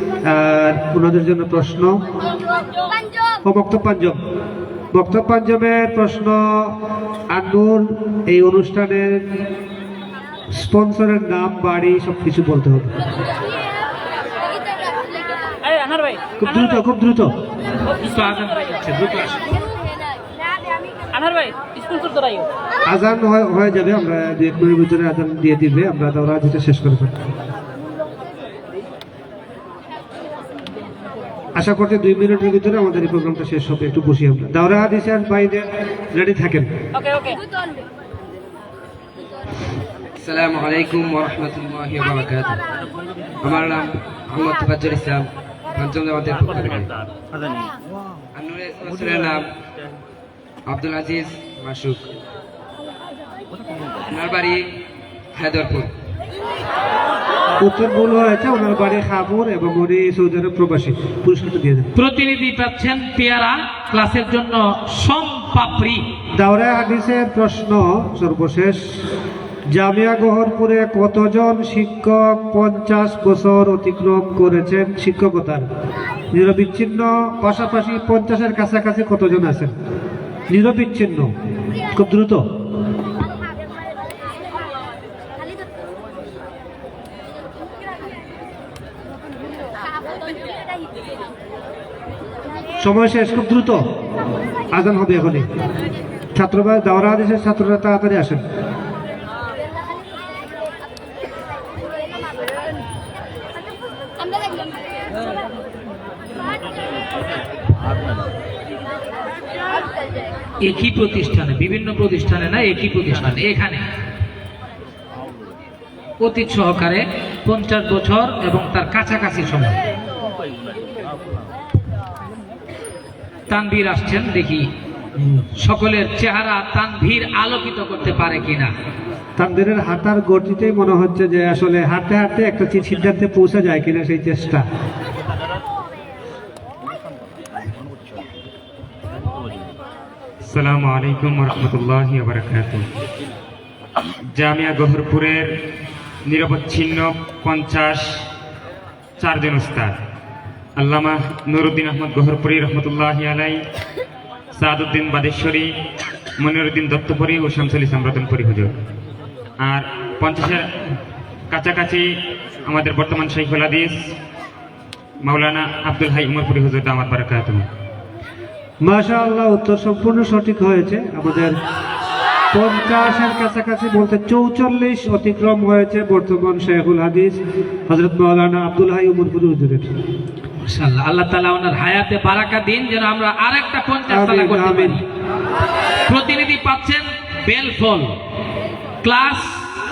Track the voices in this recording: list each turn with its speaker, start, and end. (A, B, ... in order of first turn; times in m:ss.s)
0:00.2-0:02.0 A
0:03.4-0:04.2 A
0:04.9-0:06.7 A
0:07.3-0:09.2 A
0:10.5-0:12.9 A
0:16.4-0:17.3 A
0:18.0-0:19.5 B
0:22.9-0:27.2 A
0:31.6-0:36.7 A
0:40.2-0:42.6 C
0:43.4-0:46.9 C
0:48.3-0:49.4 C
0:50.6-0:52.0 C
0:54.1-0:54.6 C
0:55.3-0:55.9 C
0:57.6-1:01.9 A
1:02.0-1:06.0 B
1:06.4-1:08.8 A
1:09.7-1:15.6 A
1:16.3-1:19.7 A
1:20.5-1:21.3 A
1:21.9-1:22.4 A
1:32.8-1:33.8 A
1:34.7-1:35.4 A
1:36.3-1:38.4 A
1:50.6-1:53.8 B
1:56.2-1:59.8 B
2:03.5-2:04.7 B
2:05.6-2:08.7 B
2:09.4-2:14.6 A
2:20.4-2:22.8 D
2:24.3-2:25.5 D
2:26.2-2:28.0 D
2:29.2-2:29.9 D
2:30.8-2:33.6 D
2:34.5-2:35.7 D
2:36.4-2:38.7 D
2:39.6-2:40.6 D
2:41.5-2:42.1 D
2:42.7-2:43.9 D
2:45.2-2:47.6 D
2:48.8-2:51.5 A
2:52.5-2:57.4 A
2:57.9-2:59.8 A
3:00.6-3:05.0 B
3:04.1-3:05.0 A
3:06.1-3:08.1 B
3:09.0-3:09.6 B